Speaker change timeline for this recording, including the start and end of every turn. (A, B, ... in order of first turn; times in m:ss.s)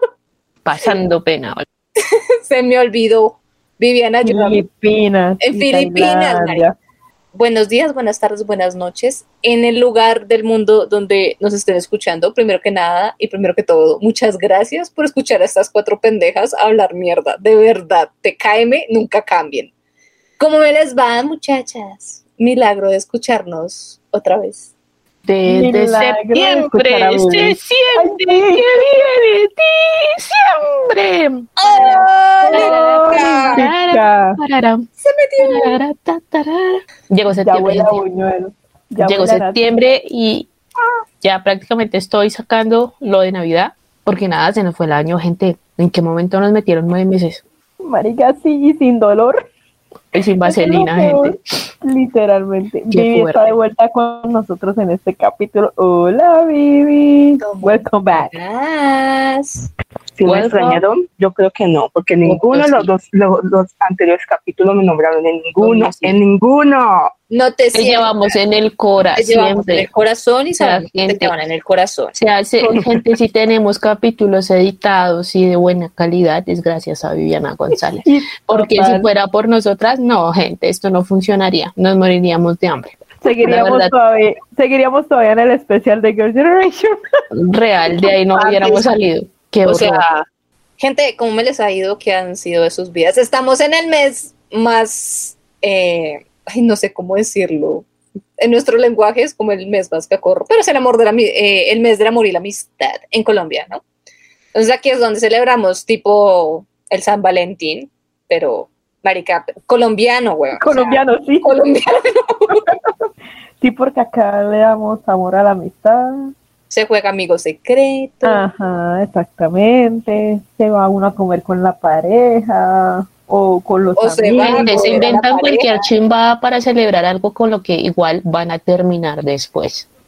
0:00.6-0:01.6 A
0:02.0-0:04.6 B
0:04.2-0:06.7 C
0:05.4-0:06.6 B
0:07.3-0:19.7 B
0:20.4-0:24.7 B
0:25.2-0:31.6 A
0:25.5-0:28.7 C
0:31.6-0:33.6 B
0:31.7-0:34.4 C
0:32.5-0:34.9 A
0:35.0-0:35.8 B
0:35.4-0:38.0 A
0:37.4-0:39.6 C
0:39.0-0:40.5 A
0:41.2-0:47.4 A
0:47.8-0:49.4 C
0:50.1-0:51.4 A
0:50.4-0:58.3 C
0:52.9-0:53.5 A
0:57.4-0:59.7 B
1:00.2-1:07.1 D
1:00.2-1:00.8 A
1:02.2-1:02.9 B
1:05.6-1:06.2 B
1:07.3-1:08.3 B
1:07.7-1:09.9 A
1:09.2-1:12.1 B
1:10.6-1:11.3 A
1:12.1-1:23.9 A
1:18.0-1:19.1 C
1:23.2-1:27.0 C
1:27.3-1:30.0 A
1:28.4-1:29.0 B
1:29.6-1:30.2 B
1:30.8-1:37.9 B
1:38.4-1:43.8 B
1:44.5-1:52.6 B
1:50.6-1:51.6 C
1:53.6-1:56.3 C
1:56.7-1:58.4 B
1:58.2-2:05.1 C
2:04.0-2:05.8 B
2:04.4-2:09.9 A